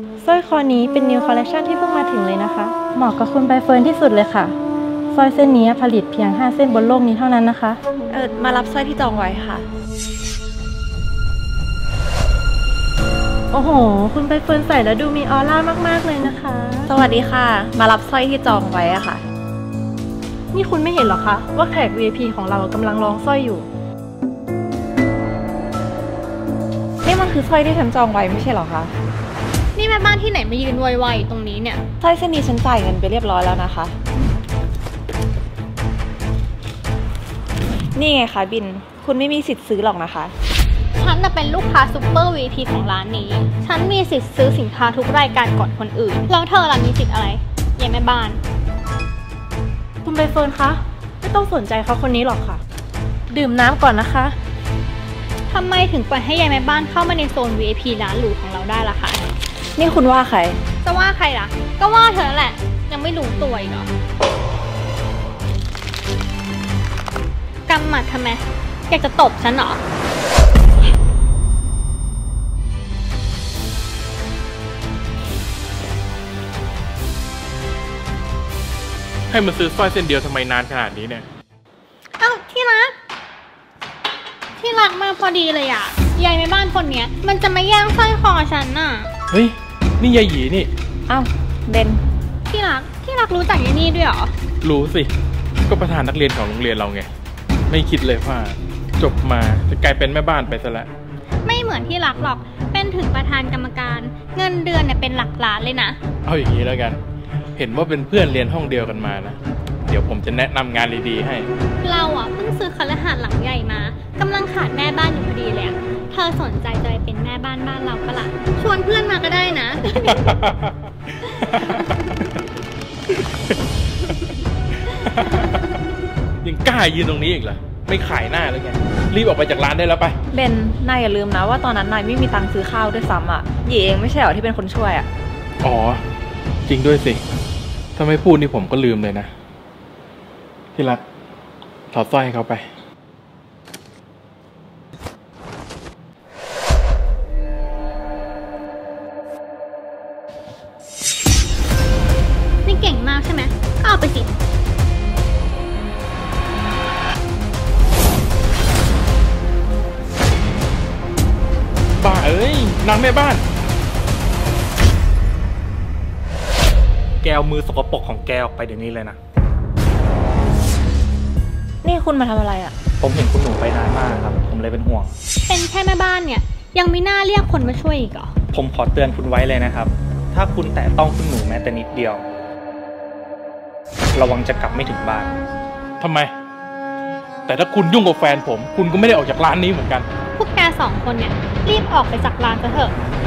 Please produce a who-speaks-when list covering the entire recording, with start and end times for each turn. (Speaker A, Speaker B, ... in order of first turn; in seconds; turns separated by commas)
Speaker A: 0.2-4.5, Speaker A: 5.1-7.8, Speaker B: 8.1-9.7, Speaker A: 13.5-16.9, Speaker B: 16.9-19.2, Speaker A: 20.5-23.6, Speaker B: 27.0-28.9, Speaker C: 29.7-31.8, Speaker B: 32.0-33.9, Speaker B: 37.9-40.3, Speaker C: 41.0-48.4, Speaker A: 50.0-52.6, Speaker A: 53.3-54.4, Speaker C: 55.5-59.3, Speaker B: 59.8-60.6, Speaker C: 60.8-63.9, Speaker C: 67.7-69.8, Speaker D: 79.3-81.3, Speaker C: 82.2-82.9, Speaker C: 84.6-89.1, Speaker D: 89.3-90.7, Speaker B: 91.1-92.0, Speaker C: 92.5-94.3, Speaker D: 94.6-95.1, Speaker D: 95.7-97.1, Speaker D: 97.7-100.9, Speaker C: 101.4-106.0, Speaker D: 106.2-107.0, Speaker D: 107.5-111.5, Speaker C: 111.8-120.3, Speaker D: 120.1-122.0, Speaker D: 124.8-125.6, Speaker D: 126.4-130.2, Speaker B: 130.3-135.1, Speaker D: 135.6-136.0, Speaker D: 136.7-137.2, Speaker D: 137.9-139.3, Speaker D: 140.7-141.0, Speaker D: 141.9-142.6, Speaker C: 152.6-154.3, Speaker D: 162.0-163.4, Speaker E: 167.2-169.2, Speaker B: 171.8-172.7, Speaker E: 173.0-175.1, Speaker C: 175.5-178.3, Speaker E: 178.5-182.2, Speaker E: 184.1-185.3, Speaker D: 186.0-186.3, Speaker D: 187.5-190.1, Speaker C: 190.4-192.9